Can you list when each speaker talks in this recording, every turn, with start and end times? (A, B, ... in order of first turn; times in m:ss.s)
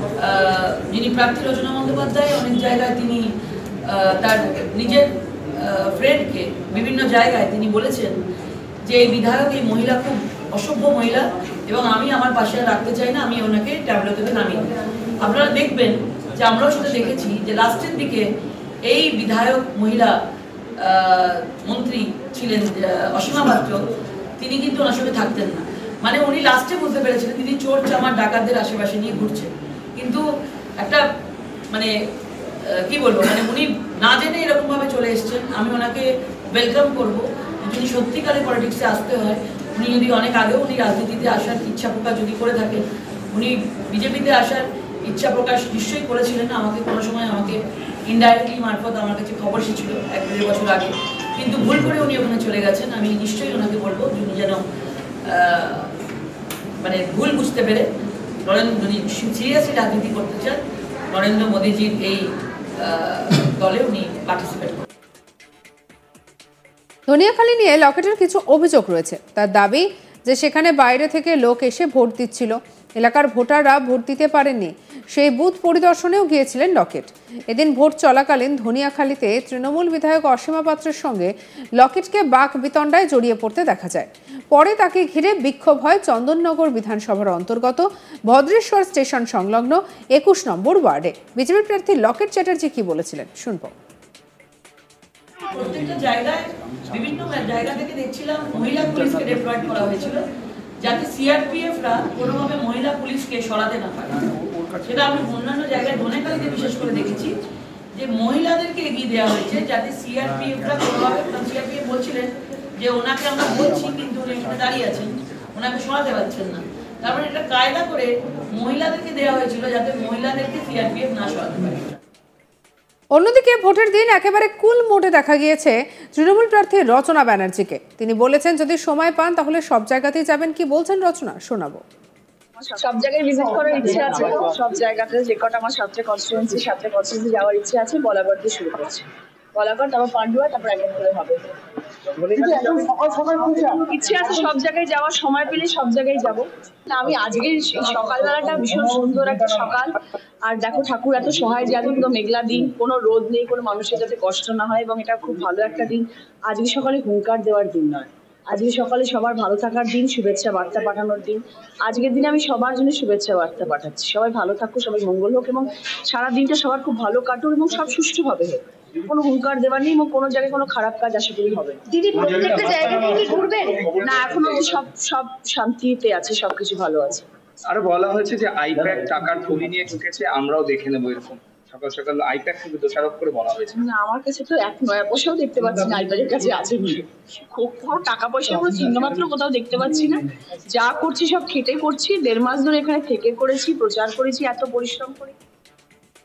0:00.2-0:08.2 A
0:08.8-0:14.7 A
0:15.2-0:18.3 A
0:18.8-0:20.2 A
0:20.8-0:23.9 A
0:24.4-0:30.2 A
0:30.8-0:31.0 A
0:32.6-0:54.6 A
0:55.2-0:55.9 A
0:56.8-0:57.9 A
0:58.4-1:00.6 A
1:01.1-1:04.9 A
1:07.1-1:33.7 B
1:35.5-1:40.2 A
1:40.8-1:44.3 A
1:44.8-1:47.4 A
1:48.0-2:02.0 A
2:03.2-2:11.8 B
2:12.6-2:21.4 C
2:22.2-2:29.9 C
2:30.5-2:51.8 C
2:51.9-2:53.9 D
2:52.1-2:54.7 E
2:54.0-2:57.3 C
2:57.7-3:03.8 E
3:03.7-3:15.4 C